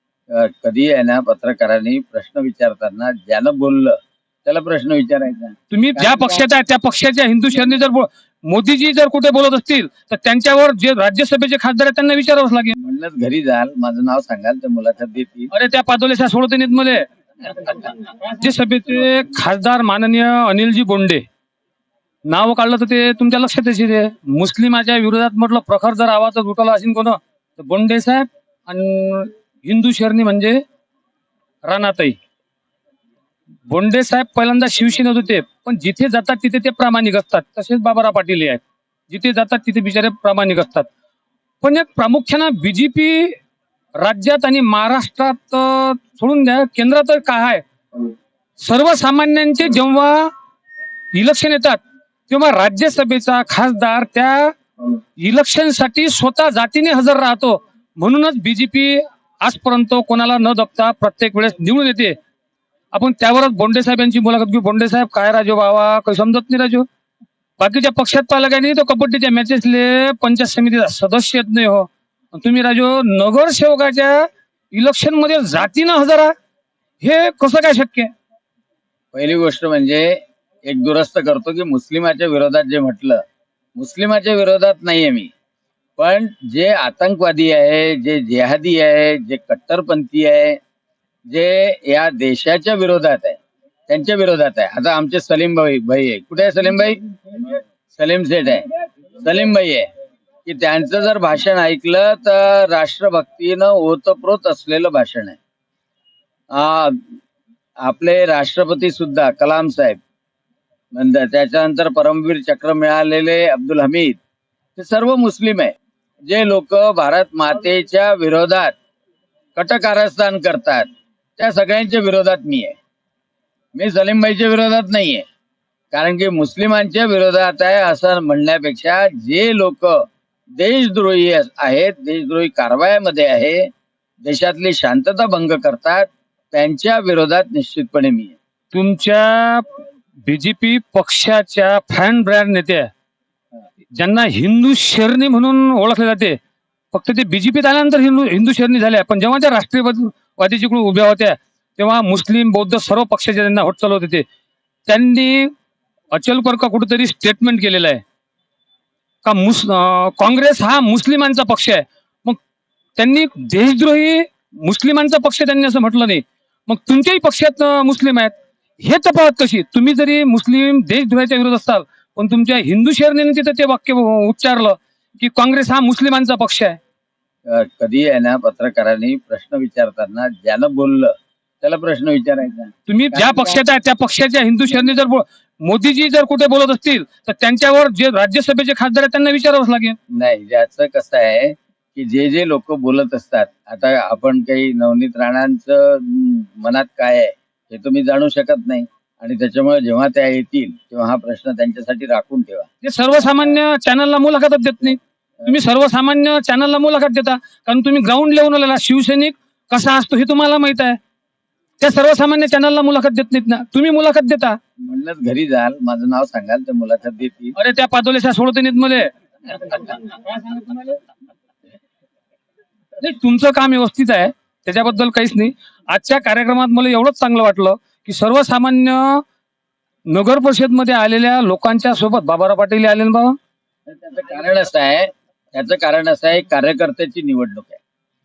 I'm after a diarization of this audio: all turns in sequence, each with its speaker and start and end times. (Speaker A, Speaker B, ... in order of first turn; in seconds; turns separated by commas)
Speaker A: 0.3-6.4, Speaker B: 5.7-12.7, Speaker A: 12.8-15.5, Speaker B: 15.5-17.0, Speaker B: 17.6-21.2, Speaker B: 22.3-30.6, Speaker B: 31.6-32.2, Speaker B: 33.7-40.9, Speaker B: 41.6-43.3, Speaker B: 44.0-47.6, Speaker B: 48.6-50.3, Speaker B: 51.2-51.8, Speaker B: 52.3-54.5, Speaker B: 55.2-62.1, Speaker B: 62.9-66.9, Speaker B: 67.6-76.3, Speaker B: 77.0-78.1, Speaker A: 79.1-83.2, Speaker A: 83.8-85.3, Speaker A: 86.0-90.6, Speaker A: 91.3-98.7, Speaker A: 99.2-99.9, Speaker A: 100.5-105.4, Speaker A: 106.5-107.0, Speaker A: 107.8-110.0, Speaker A: 110.9-114.2, Speaker A: 114.8-115.7, Speaker A: 116.2-118.7, Speaker A: 119.6-120.9, Speaker A: 121.4-122.8, Speaker A: 123.8-125.2, Speaker A: 125.9-130.0, Speaker A: 130.6-133.7, Speaker A: 134.2-138.3, Speaker B: 138.7-139.7, Speaker B: 140.2-142.9, Speaker B: 143.9-146.4, Speaker B: 146.9-154.2, Speaker B: 154.9-155.5, Speaker B: 156.1-158.0, Speaker B: 159.2-162.4, Speaker B: 163.0-176.8, Speaker A: 177.5-183.6, Speaker B: 182.9-189.9, Speaker A: 190.1-202.7, Speaker B: 202.8-205.0, Speaker B: 205.5-211.0, Speaker B: 211.8-214.6, Speaker A: 214.8-217.6, Speaker B: 217.6-219.1, Speaker B: 219.7-221.0, Speaker B: 223.0-229.2, Speaker B: 230.1-233.4, Speaker A: 233.9-237.8